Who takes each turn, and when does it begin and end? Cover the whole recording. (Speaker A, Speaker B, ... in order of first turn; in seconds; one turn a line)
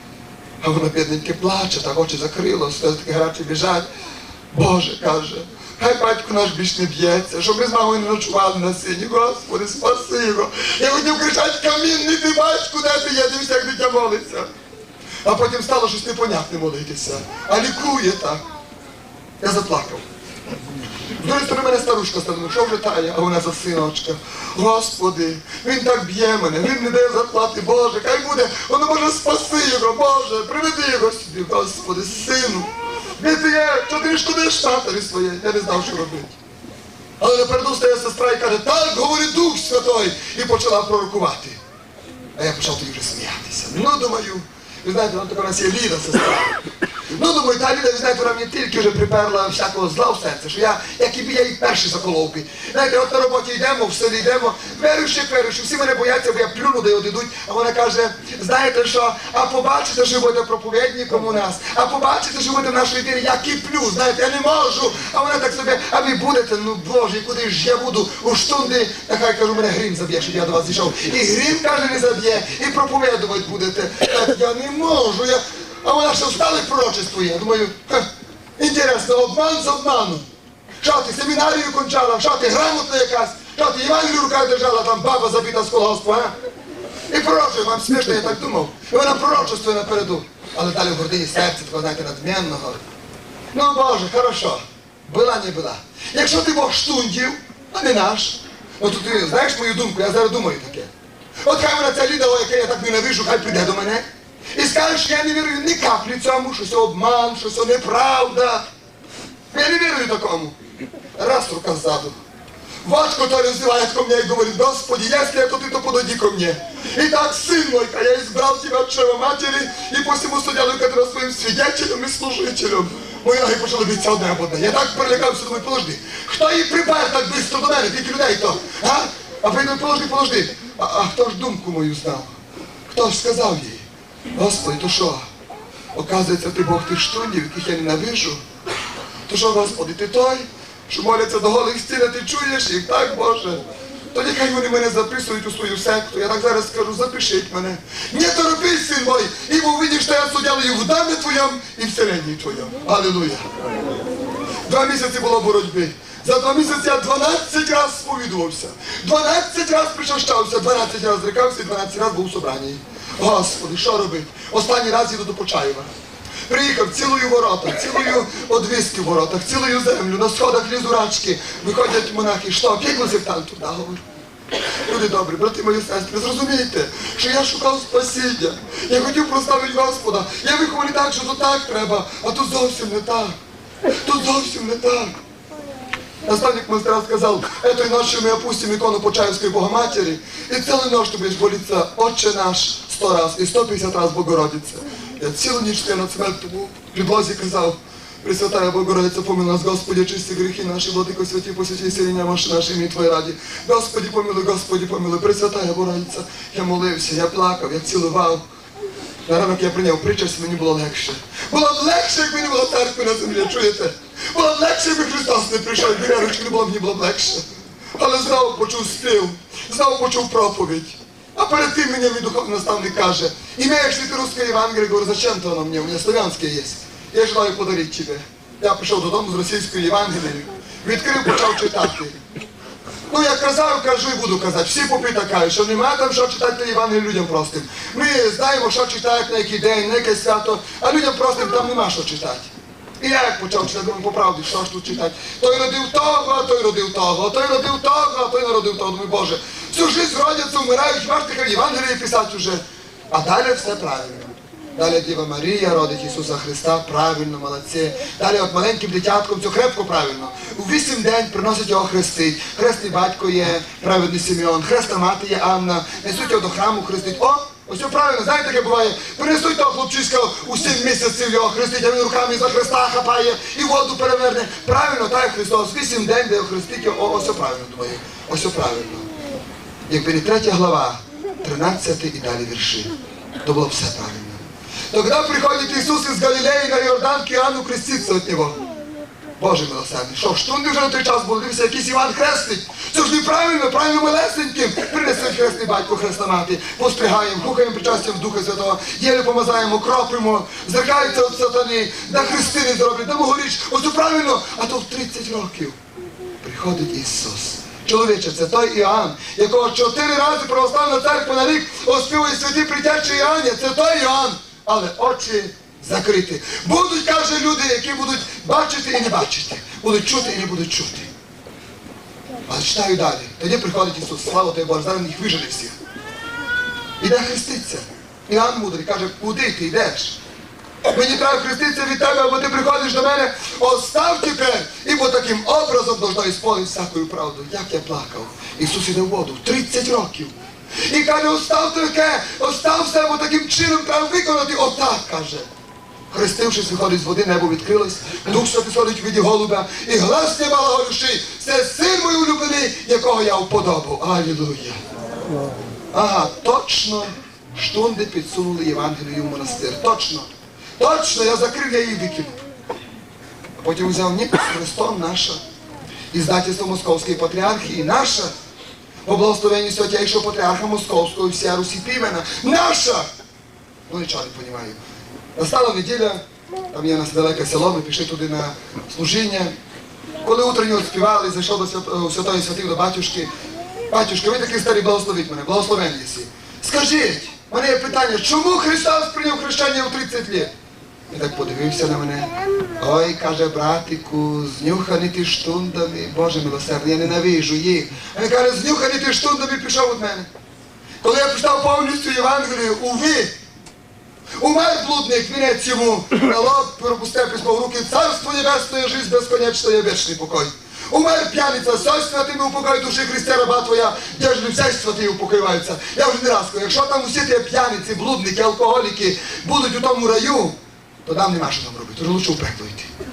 Speaker A: 0.6-3.9
Speaker A: 4.5-14.5
Speaker A: 15.2-18.4
Speaker A: 19.4-20.0
Speaker A: 21.2-36.4
Speaker A: 37.2-41.6
Speaker A: 42.4-46.6
Speaker A: 47.1-78.1
Speaker A: 78.6-80.2
Speaker A: 80.8-86.3
Speaker A: 87.1-92.8
Speaker A: 93.5-100.9
Speaker A: 101.4-104.0
Speaker A: 104.5-108.6
Speaker A: 109.5-110.5
Speaker A: 111.2-112.1
Speaker A: 112.8-132.3
Speaker A: 132.9-133.8
Speaker A: 134.3-135.2
Speaker A: 135.9-138.4
Speaker A: 139.3-153.4
Speaker A: 154.7-165.9
Speaker A: 166.5-174.0
Speaker A: 174.8-183.3
Speaker A: 184.0-185.1
Speaker A: 186.2-208.4
Speaker A: 209.2-217.4
Speaker A: 217.9-232.2
Speaker A: 233.1-279.1
Speaker A: 279.9-288.6
Speaker A: 289.4-305.8
Speaker A: 306.4-321.1
Speaker A: 322.5-325.7
Speaker A: 327.0-330.2
Speaker A: 330.9-345.4
Speaker A: 346.1-354.8
Speaker A: 355.9-362.4
Speaker A: 363.6-365.4
Speaker A: 366.1-368.3
Speaker A: 369.0-373.1
Speaker A: 373.9-374.8
Speaker A: 375.4-379.5
Speaker A: 380.2-383.3
Speaker A: 383.9-390.5
Speaker A: 391.1-400.3
Speaker A: 401.0-403.3
Speaker A: 404.4-422.9